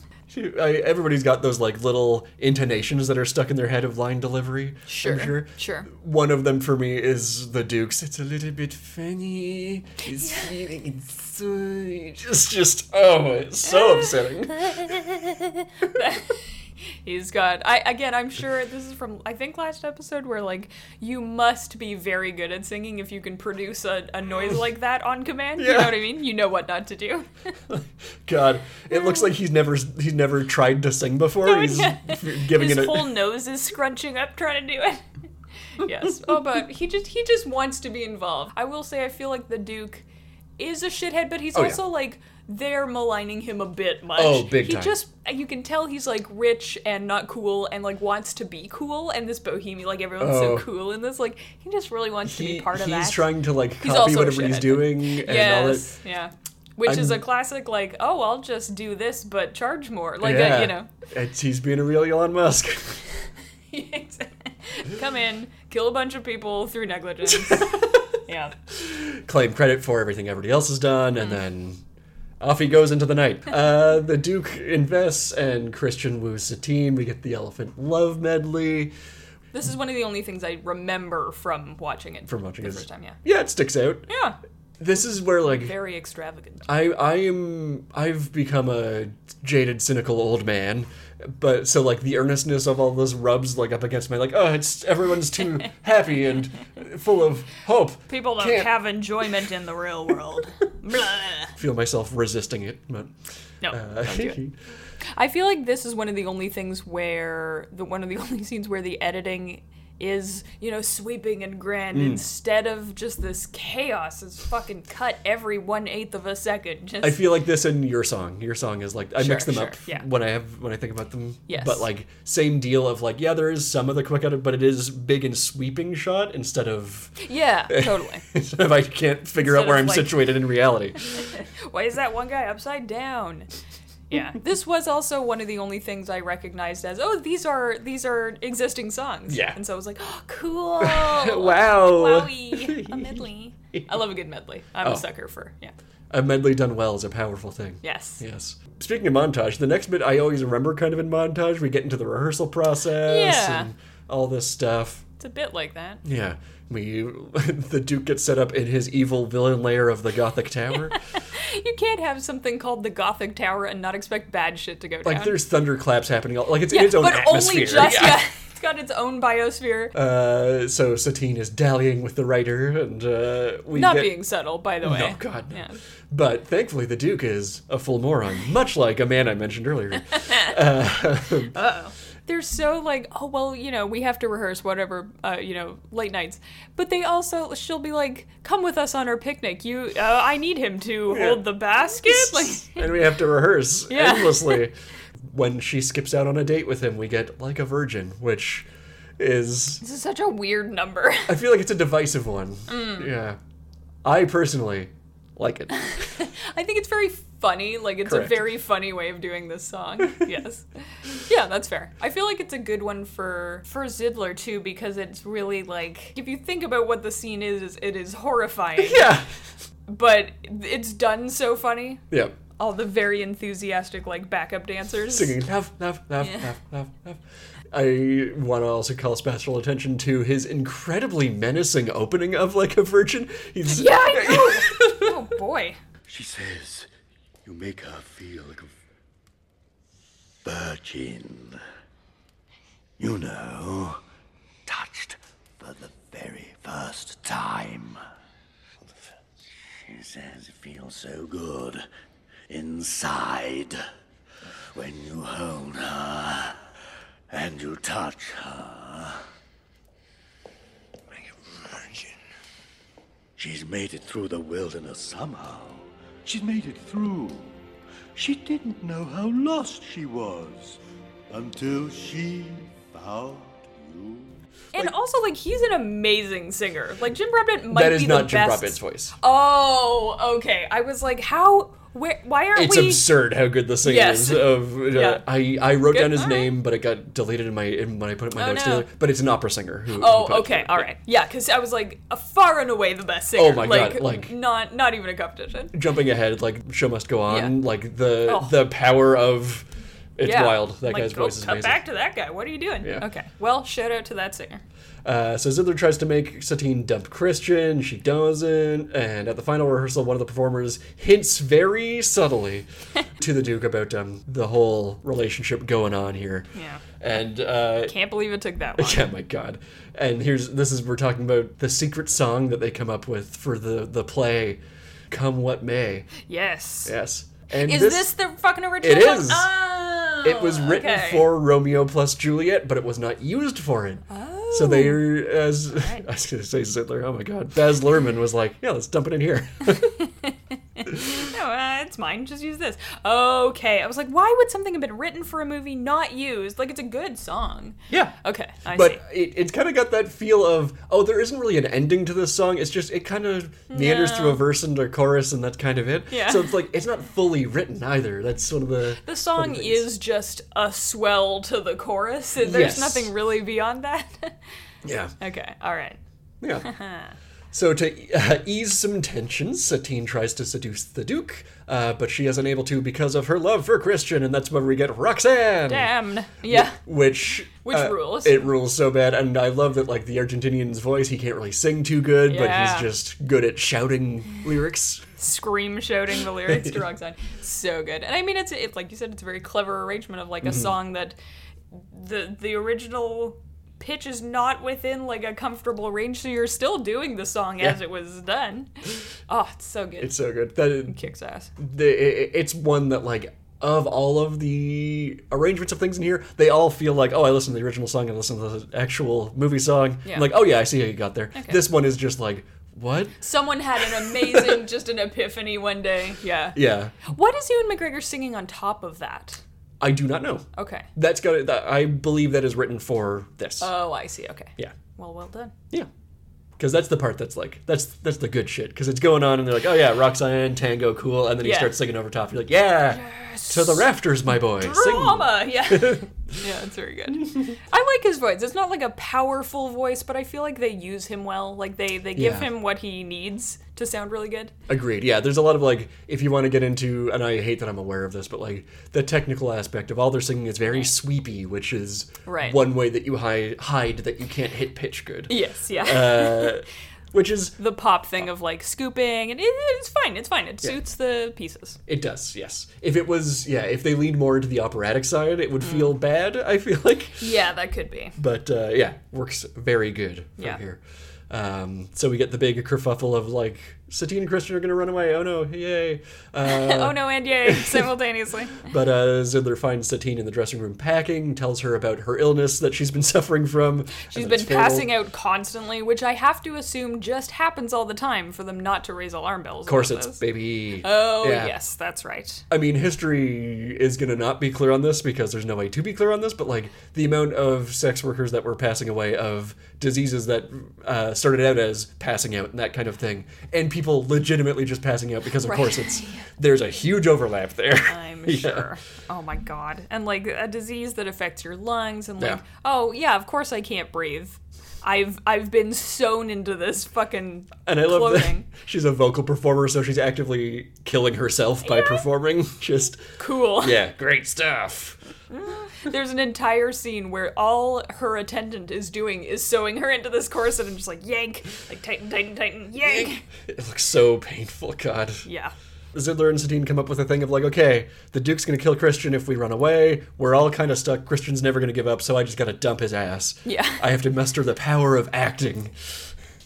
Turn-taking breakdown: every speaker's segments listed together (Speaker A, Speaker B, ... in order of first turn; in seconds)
Speaker A: 0.3-15.4, 25.6-26.0, 27.7-33.1, 41.5-41.8, 44.2-45.0, 50.2-50.7, 52.2-55.9, 56.9-57.2, 60.2-63.0, 67.4-68.0, 68.7-71.8, 72.4-78.9, 82.3-84.1, 84.8-85.8, 86.7-98.8, 101.6-103.2, 103.7-104.6, 111.9-112.2, 117.0-131.1, 139.3-139.6, 140.8-143.9, 146.1-155.1, 156.0-161.0, 165.0-168.2, 169.9-174.2, 174.8-181.6, 191.1-198.7, 199.2-199.8, 201.3-203.4, 204.0-206.1, 208.1-208.5, 218.8-219.3, 222.1-222.4, 225.1-235.2, 277.7-279.2, 282.6-290.9, 293.4-294.3, 295.7-301.8, 302.8-303.1, 305.1-312.7, 313.2-316.5, 317.0-317.9, 318.8-326.1, 326.9-328.1, 328.8-329.5, 330.2-340.0, 340.9-341.3, 347.9-348.1, 348.7-359.9, 362.4-363.1, 364.8-365.1, 366.4-366.7, 367.5-385.1, 386.5-386.8, 390.4-390.7, 400.0-401.0, 401.6-413.2, 414.0-414.6, 416.6-417.0, 419.8-423.7, 426.6-436.1, 442.1-442.5, 444.7-457.6, 461.9-467.3, 468.2-477.9, 478.6-484.9, 489.7-491.5, 492.5-508.7, 517.7-523.0, 523.6-525.0, 532.8-535.3, 535.9-545.8
Speaker B: 4.9-5.9, 10.2-10.5, 13.7-14.0, 15.9-16.4, 17.1-27.3, 31.4-35.0, 35.8-40.0, 40.6-60.9, 63.7-68.6, 79.5-83.2, 84.1-84.4, 85.5-86.7, 98.1-101.5, 103.6-104.4, 105.1-117.2, 119.2-120.0, 121.5-121.8, 127.2-128.2, 129.4-130.2, 131.1-133.5, 134.1-145.7, 147.8-148.2, 153.0-153.7, 155.2-156.0, 161.1-165.4, 166.7-169.9, 173.7-175.8, 180.2-180.5, 181.5-192.9, 193.9-194.7, 199.8-201.3, 202.7-203.1, 205.9-219.2, 219.9-222.0, 222.6-225.3, 233.7-235.8, 274.7-283.1, 283.8-285.2, 285.9-286.5, 288.4-288.9, 289.9-295.7, 297.3-297.6, 298.2-298.5, 300.2-304.6, 316.5-316.8, 317.9-319.1, 326.2-326.9, 327.5-331.3, 334.1-335.1, 335.7-336.0, 340.8-349.0, 353.7-354.4, 356.1-356.5, 359.0-364.4, 365.2-366.0, 366.6-367.2, 375.7-376.8, 377.6-378.5, 382.3-382.9, 385.2-391.2, 391.7-398.7, 399.3-400.2, 400.8-401.5, 410.1-410.3, 411.4-411.6, 413.2-419.4, 420.6-420.9, 423.6-425.5, 431.4-431.8, 432.9-444.5, 452.3-452.6, 455.3-456.6, 457.6-461.8, 465.6-465.9, 467.2-468.2, 476.4-478.7, 484.1-490.2, 490.8-492.4, 505.4-506.3, 507.9-518.5, 521.6-522.0, 523.2-523.8, 525.3-533.2, 535.2-535.5, 543.5-543.8
Speaker C: 236.1-236.9, 237.4-238.8, 240.4-241.6, 243.0-244.0, 244.7-248.0, 249.8-251.9, 252.5-253.8, 254.7-256.6, 257.3-259.2, 261.1-262.2, 263.4-267.6, 268.1-274.4